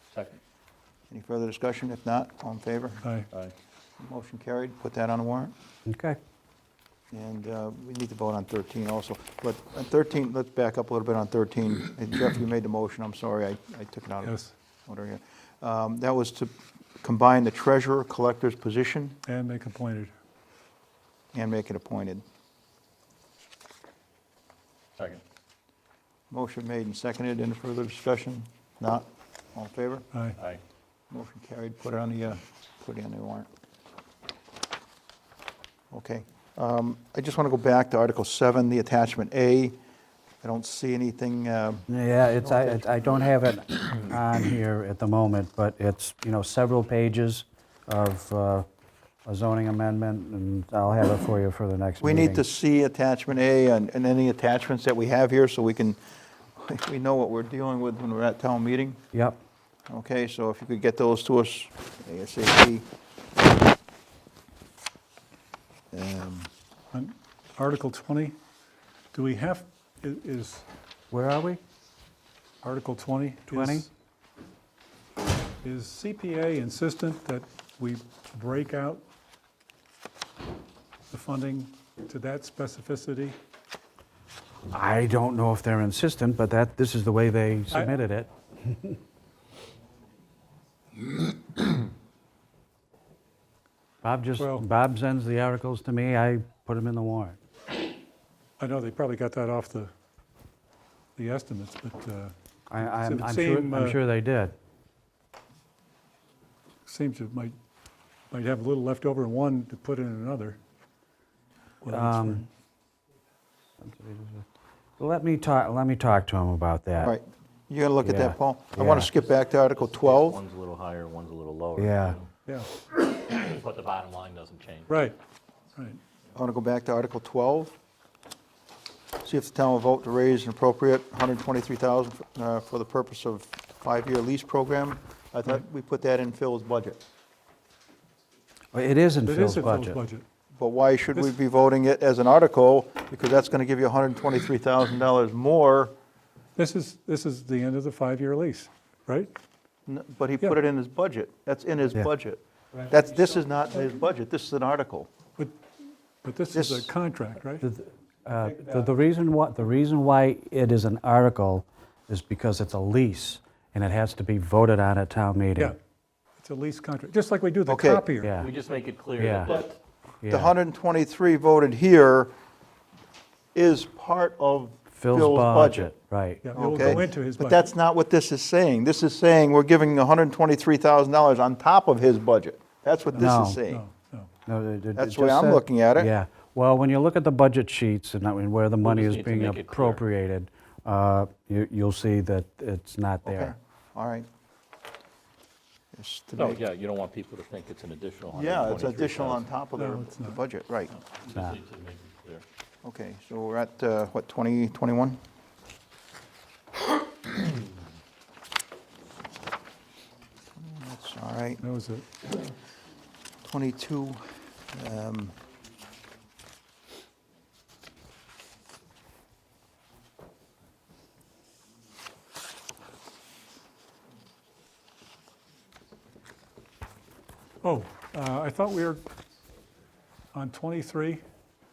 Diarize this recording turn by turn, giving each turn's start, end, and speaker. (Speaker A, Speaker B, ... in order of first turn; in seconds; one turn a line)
Speaker A: 0.1-0.4
Speaker B: 1.1-3.0
Speaker B: 4.0-5.5
Speaker C: 5.9-6.2
Speaker B: 7.1-19.2
Speaker D: 14.2-14.5
Speaker D: 19.3-20.1
Speaker B: 21.3-22.2
Speaker B: 26.3-30.1
Speaker B: 31.1-33.5
Speaker B: 35.9-39.8
Speaker B: 40.4-41.9
Speaker C: 41.9-48.7
Speaker C: 49.3-52.4
Speaker B: 52.0-56.0
Speaker B: 56.6-59.0
Speaker C: 59.1-59.4
Speaker B: 59.9-62.9
Speaker B: 65.9-66.5
Speaker D: 66.9-68.4
Speaker D: 69.1-70.7
Speaker C: 71.1-71.6
Speaker D: 72.6-73.9
Speaker C: 73.5-73.9
Speaker D: 75.6-79.0
Speaker D: 81.1-83.4
Speaker C: 84.7-89.0
Speaker C: 94.0-97.4
Speaker D: 94.4-94.6
Speaker D: 98.6-99.9
Speaker D: 101.2-104.0
Speaker C: 102.7-104.5
Speaker D: 106.9-107.5
Speaker D: 108.3-110.6
Speaker D: 111.8-112.5
Speaker C: 111.9-112.5
Speaker C: 113.8-114.5
Speaker C: 115.0-117.2
Speaker B: 117.0-120.4
Speaker C: 118.0-119.1
Speaker A: 119.5-122.3
Speaker C: 121.8-122.2
Speaker A: 122.9-125.0
Speaker D: 124.9-125.2
Speaker D: 125.8-126.0
Speaker B: 126.3-127.7
Speaker B: 129.2-137.0
Speaker C: 138.7-140.0
Speaker D: 139.3-140.2
Speaker B: 140.6-145.9
Speaker D: 146.6-149.3
Speaker B: 149.9-155.1
Speaker D: 156.2-157.7
Speaker B: 156.5-156.9
Speaker C: 157.6-165.8
Speaker D: 166.4-168.3
Speaker B: 167.7-168.1
Speaker C: 168.2-168.5
Speaker A: 168.4-169.8
Speaker C: 169.2-169.6
Speaker C: 170.2-170.6
Speaker B: 170.3-172.3
Speaker B: 173.5-175.9
Speaker C: 174.9-177.0
Speaker D: 176.4-177.7
Speaker B: 176.6-183.8
Speaker D: 183.1-184.3
Speaker C: 183.2-183.6
Speaker C: 184.5-193.6
Speaker B: 185.0-186.1
Speaker A: 188.8-190.0
Speaker B: 193.2-194.3
Speaker B: 195.9-196.6
Speaker A: 196.4-199.5
Speaker B: 198.3-200.9
Speaker D: 199.8-200.4
Speaker A: 200.9-202.4
Speaker B: 202.8-205.2
Speaker B: 210.6-211.6
Speaker D: 211.6-212.1
Speaker B: 213.4-215.4
Speaker D: 227.6-229.0
Speaker D: 230.3-231.2